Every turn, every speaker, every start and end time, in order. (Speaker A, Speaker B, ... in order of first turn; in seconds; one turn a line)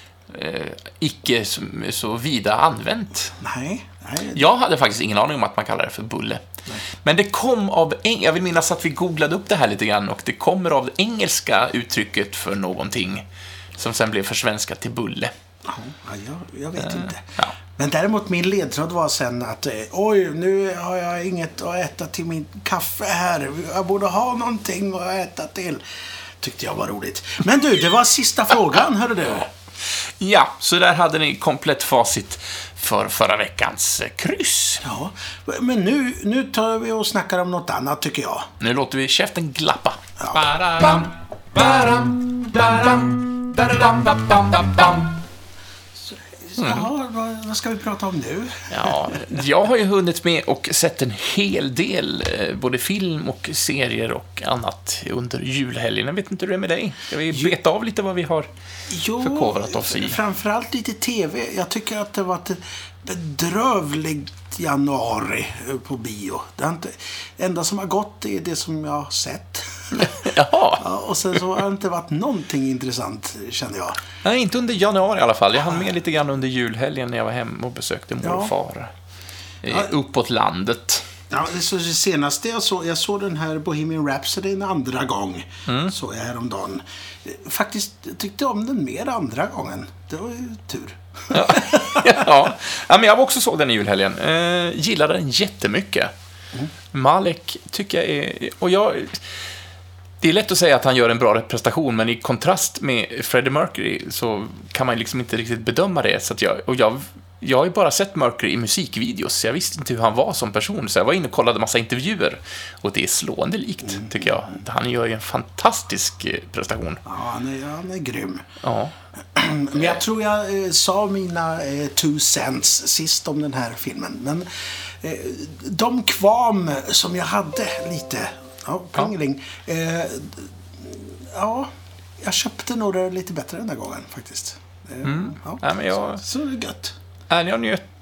Speaker A: 0.3-3.4
Speaker B: 3.4-4.4
Speaker A: 4.3-6.5
Speaker A: 7.0-13.2
Speaker A: 13.8-15.3
Speaker B: 15.7-25.8
Speaker A: 16.8-17.6
Speaker B: 26.4-29.5
Speaker A: 30.2-34.8
Speaker B: 34.8-38.5
Speaker A: 38.6-45.2
Speaker B: 46.0-49.4
Speaker A: 46.6-46.9
Speaker A: 48.7-58.5
Speaker B: 58.9-74.0
Speaker A: 59.2-60.2
Speaker A: 70.0-70.9
Speaker A: 74.2-78.9
Speaker B: 78.2-78.5
Speaker A: 79.6-81.1
Speaker B: 81.3-92.3
Speaker A: 85.7-85.9
Speaker A: 91.3-96.1
Speaker A: 96.9-99.4
Speaker A: 100.2-117.0
Speaker B: 113.9-114.4
Speaker B: 117.0-118.5
Speaker A: 118.6-119.0
Speaker B: 119.3-124.5
Speaker B: 125.0-137.0
Speaker A: 135.0-136.2
Speaker A: 137.3-137.8